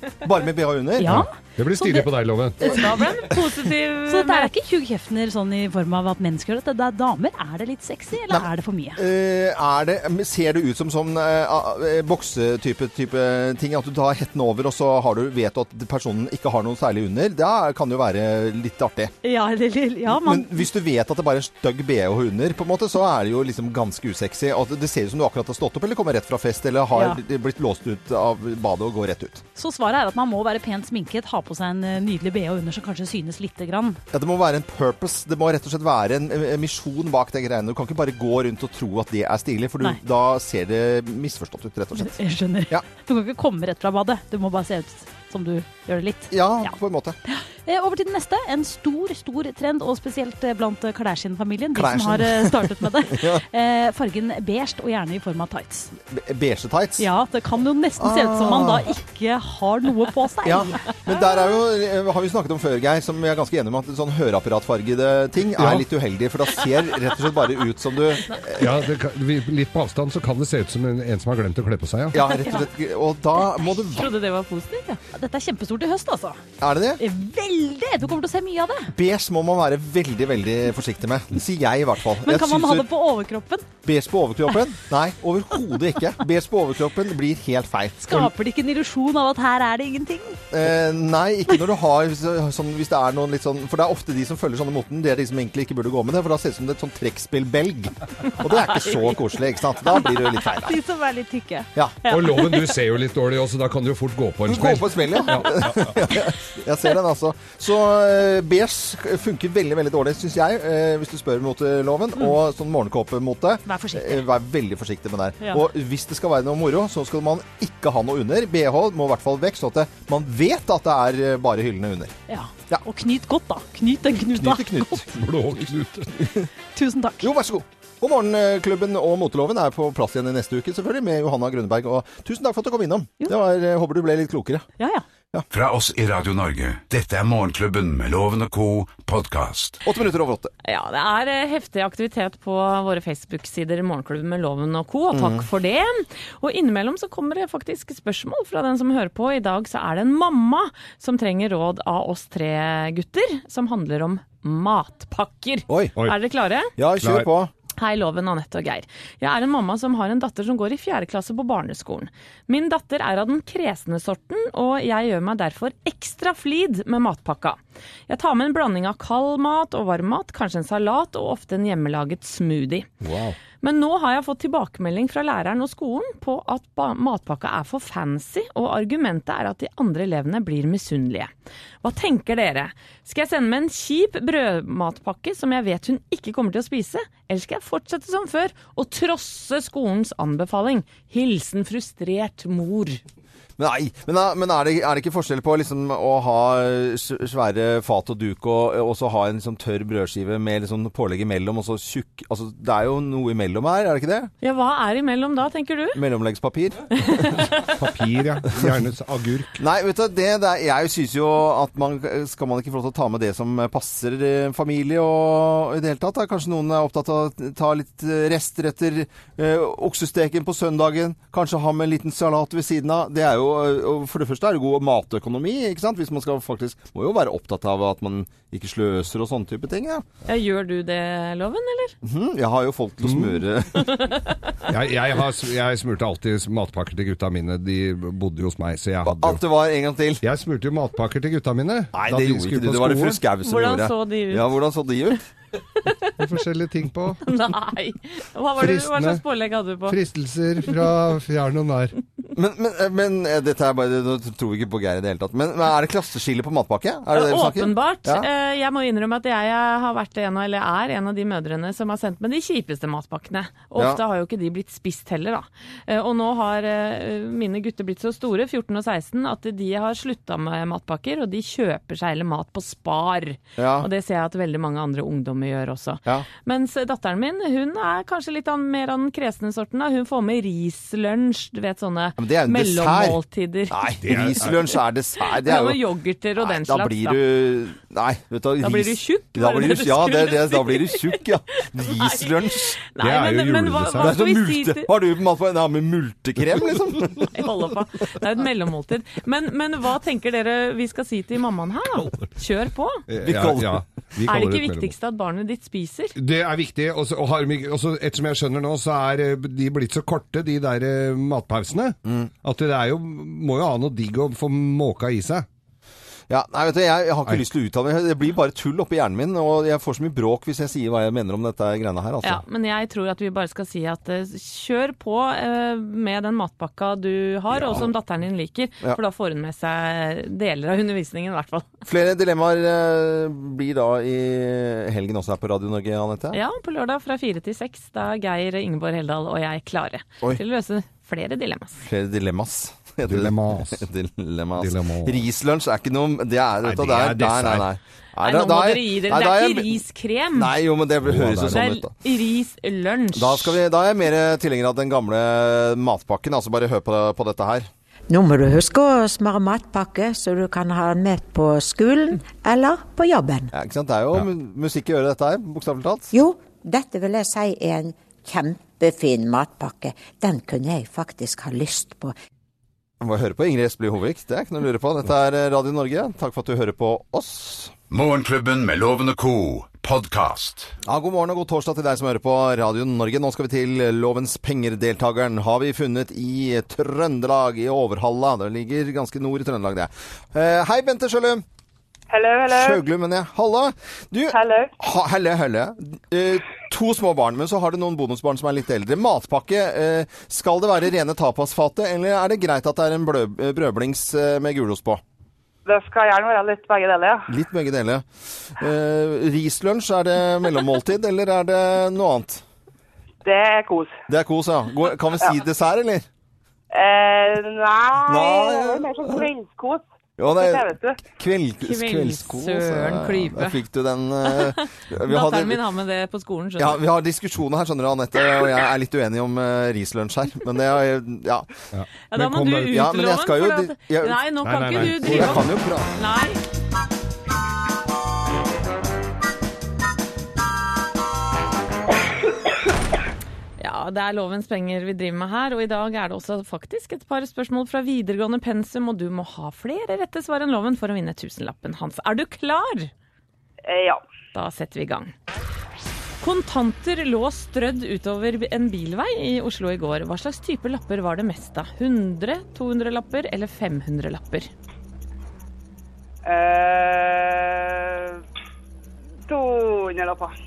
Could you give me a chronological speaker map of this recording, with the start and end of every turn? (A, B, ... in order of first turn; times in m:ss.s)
0:00.2-0:01.2 A
0:01.0-0:02.1 B
0:01.0-0:02.6 C
0:02.6-0:04.5 D
0:04.0-0:09.0 B
0:08.3-0:19.1 A
0:19.2-0:20.7 B
0:20.1-0:29.4 A
0:26.9-0:27.2 B
0:29.6-0:34.0 B
0:34.1-0:42.2 A
0:42.0-0:46.7 B
0:46.3-0:47.2 A
0:47.2-0:55.9 B
0:51.7-0:53.4 A
0:56.0-0:57.1 A
0:57.0-1:01.4 B
0:58.0-0:58.9 A
1:00.4-1:08.7 A
1:05.6-1:05.8 C
1:08.6-1:12.2 C
1:12.1-1:14.1 A
1:13.9-1:15.0 D
1:15.1-1:16.4 B
1:16.6-1:17.0 A
1:17.0-1:18.9 B
1:18.9-1:22.9 A
1:22.2-1:23.7 B
1:23.8-1:28.3 A
1:28.0-1:30.4 B
1:30.5-1:40.8 A
1:40.1-1:42.8 B
1:42.1-1:46.0 C
1:44.5-2:02.2 A
1:53.6-1:54.2 B
2:02.3-2:05.1 B
2:04.2-2:05.3 A
2:05.2-2:06.1 C
2:06.7-2:07.3 B
2:07.2-2:14.7 A
2:14.8-2:15.0 B
2:15.5-2:19.8 E
2:19.8-2:20.5 A
2:20.6-2:36.7 D
2:25.1-2:25.4 A
2:35.7-2:36.0 A
2:36.8-2:37.5 A
2:37.0-2:37.3 C
2:37.8-2:52.9 D
2:53.0-2:53.4 C
2:53.6-3:01.3 D
3:01.8-3:13.0 D
3:13.6-3:24.3 A
3:24.4-3:26.0 D
3:25.9-3:27.3 A
3:27.0-3:27.5 D
3:27.6-3:29.6 C
3:29.6-3:50.0 A
3:50.2-3:52.0 D
3:52.0-3:54.1 A
3:53.0-3:53.4 C
3:54.7-3:59.4 C
3:59.0-4:00.2 A
4:00.2-4:03.2 C
4:01.9-4:05.3 A
4:03.4-4:04.5 D
4:06.2-4:07.3 C
4:07.2-4:10.0 D
4:08.6-4:09.2 C
4:09.9-4:12.0 C
4:12.3-4:18.3 A
4:17.1-4:43.9 D
4:23.8-4:24.0 A
4:33.6-4:33.9 A
4:42.2-4:43.2 A
4:43.7-4:45.8 A
4:44.0-4:44.6 C
4:45.2-4:47.2 D
4:46.4-4:52.8 A
4:48.6-4:51.2 D
4:51.8-4:54.9 D
4:53.0-4:54.1 C
4:54.0-4:57.3 A
4:57.3-5:03.0 D
5:02.0-5:02.3 C
5:03.1-5:04.9 C
5:03.2-5:03.8 A
5:04.3-5:06.1 D
5:06.2-5:15.4 C
5:12.0-5:12.3 A
5:16.3-5:22.4 A
5:22.2-5:31.7 D
5:27.5-5:27.9 A
5:31.8-5:36.4 A
5:36.3-5:41.8 D
5:41.8-5:49.8 A
5:43.0-5:43.8 C
5:44.6-5:45.2 C
5:46.6-5:47.7 C
5:48.2-5:50.5 D
5:50.3-5:51.9 A
5:51.0-5:51.6 C
5:51.5-5:53.6 D
5:53.1-5:57.7 A
5:58.1-6:03.5 F
6:03.5-6:06.1 A
6:06.1-6:12.1 F
6:13.0-6:17.7 A
6:17.9-6:20.7 E
6:20.8-6:31.4 A
6:32.1-6:32.8 G
6:32.5-6:45.0 A
6:34.3-6:34.7 G
6:45.6-6:47.3 G
6:47.3-6:52.4 A
6:53.2-6:53.9 G
6:54.1-6:56.0 A
6:56.7-6:59.8 G
6:58.0-6:59.2 A
7:00.2-7:05.6 A
7:00.3-7:01.0 G
7:01.6-7:03.6 D
7:04.2-7:06.8 D
7:06.6-7:11.5 A
7:11.7-7:12.8 C
7:12.1-7:16.4 D
7:12.6-7:15.9 A
7:14.4-7:15.5 C
7:23.6-7:32.9 D
7:33.6-7:34.0 G
7:34.3-7:35.1 D
7:36.2-7:44.5 D
7:46.2-7:48.2 G
7:49.3-7:50.3 G